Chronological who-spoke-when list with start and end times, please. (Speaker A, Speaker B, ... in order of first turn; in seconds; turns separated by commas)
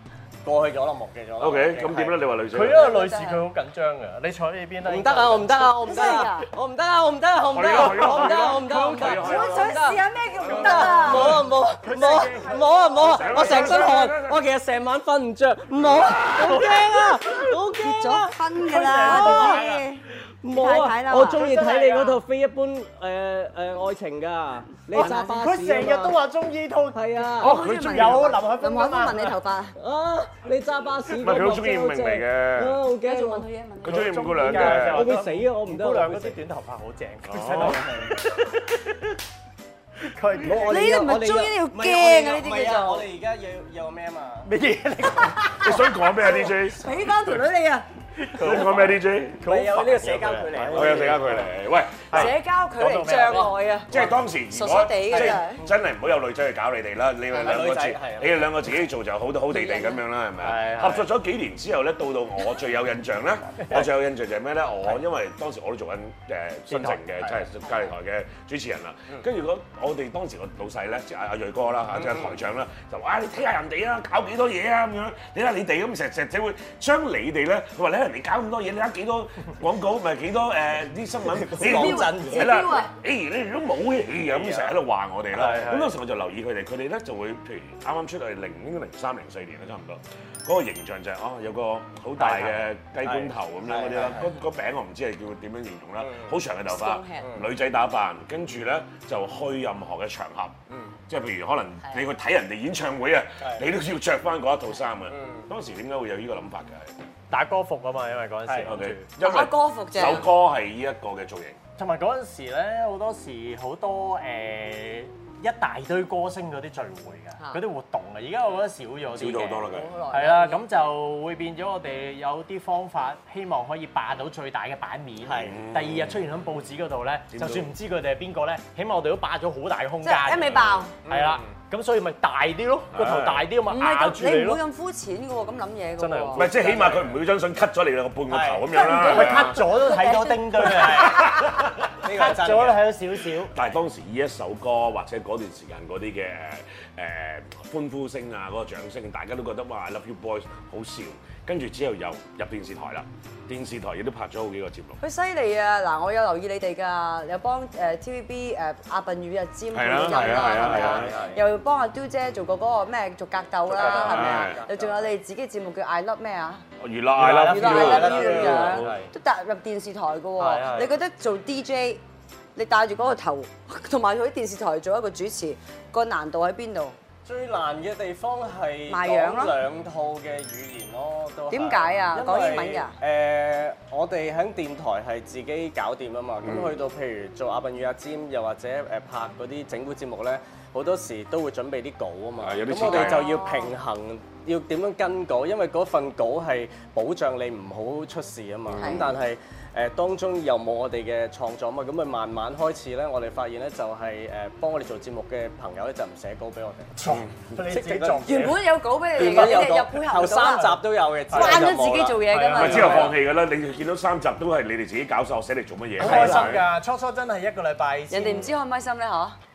Speaker A: 0.4-2.2, Speaker B: 1.4-2.9, Speaker C: 2.5-6.2, Speaker D: 2.6-3.4, Speaker A: 4.8-19.7, Speaker D: 5.6-6.5, Speaker B: 7.5-11.5, Speaker D: 7.8-14.0, Speaker C: 10.5-13.8, Speaker B: 13.0-14.5, Speaker C: 16.5-16.9, Speaker D: 17.7-22.1, Speaker C: 18.6-19.9, Speaker A: 20.4-26.2, Speaker C: 21.4-22.2, Speaker D: 24.9-25.5, Speaker C: 25.0-29.4, Speaker A: 26.9-27.5, Speaker B: 27.4-28.3, Speaker D: 27.4-29.8, Speaker A: 29.8-33.5, Speaker B: 31.1-32.8, Speaker D: 33.0-34.2, Speaker B: 33.8-35.1, Speaker C: 33.9-38.6, Speaker A: 34.4-36.4, Speaker B: 37.2-37.9, Speaker A: 37.5-38.2, Speaker C: 40.0-40.9, Speaker A: 40.4-44.5, Speaker D: 40.5-43.1, Speaker C: 44.5-45.8, Speaker B: 45.6-47.4, Speaker D: 46.1-47.9, Speaker C: 48.2-51.2, Speaker B: 48.4-49.5, Speaker A: 48.4-51.5, Speaker B: 50.7-52.3, Speaker C: 52.1-53.5, Speaker D: 52.1-53.9, Speaker B: 53.9-100.6, Speaker D: 54.5-55.6, Speaker A: 55.1-55.4, Speaker D: 57.3-57.6, Speaker A: 57.3-58.5, Speaker D: 59.5-60.0, Speaker C: 60.4-61.1, Speaker C: 66.7-67.0, Speaker A: 72.0-72.3, Speaker A: 81.3-82.5, Speaker D: 81.6-82.9, Speaker A: 84.2-84.8, Speaker C: 85.3-85.9, Speaker C: 92.2-92.6, Speaker A: 93.0-94.3, Speaker A: 96.0-96.4, Speaker D: 96.7-97.3, Speaker A: 100.7-101.0, Speaker B: 101.1-106.9, Speaker A: 103.4-103.7, Speaker A: 105.1-105.5, Speaker C: 107.3-109.1, Speaker A: 108.5-108.8, Speaker B: 108.7-111.6, Speaker D: 109.2-110.3, Speaker C: 111.8-134.6, Speaker B: 119.1-119.9, Speaker D: 119.7-120.6, Speaker A: 125.2-125.6, Speaker B: 125.4-126.2, Speaker B: 127.3-127.7, Speaker D: 130.0-130.9, Speaker A: 131.1-131.5, Speaker B: 132.9-133.5, Speaker D: 133.7-136.5, Speaker C: 136.0-137.1, Speaker B: 136.3-139.6, Speaker A: 138.3-138.7, Speaker D: 138.7-141.3, Speaker C: 138.9-143.6, Speaker A: 142.0-142.9, Speaker B: 143.5-155.0, Speaker D: 155.0-166.6, Speaker B: 159.7-161.2, Speaker A: 160.1-161.4, Speaker A: 163.7-165.1, Speaker B: 163.8-164.6, Speaker C: 163.8-164.1, Speaker B: 166.8-169.0, Speaker C: 167.2-169.1, Speaker D: 167.5-172.0, Speaker A: 167.8-169.0, Speaker C: 170.4-170.9, Speaker D: 172.6-177.0, Speaker A: 177.2-206.9, Speaker D: 178.9-179.6, Speaker D: 181.5-183.0, Speaker B: 186.4-186.8, Speaker B: 192.4-193.3, Speaker D: 192.8-193.8, Speaker B: 198.7-199.1, Speaker D: 198.8-199.1, Speaker C: 207.0-208.6, Speaker A: 207.7-208.5, Speaker D: 208.2-213.2, Speaker A: 209.1-212.2, Speaker C: 211.3-211.7, Speaker C: 212.3-213.2, Speaker B: 212.5-216.6, Speaker C: 216.0-218.5, Speaker A: 216.0-216.6, Speaker D: 218.1-219.4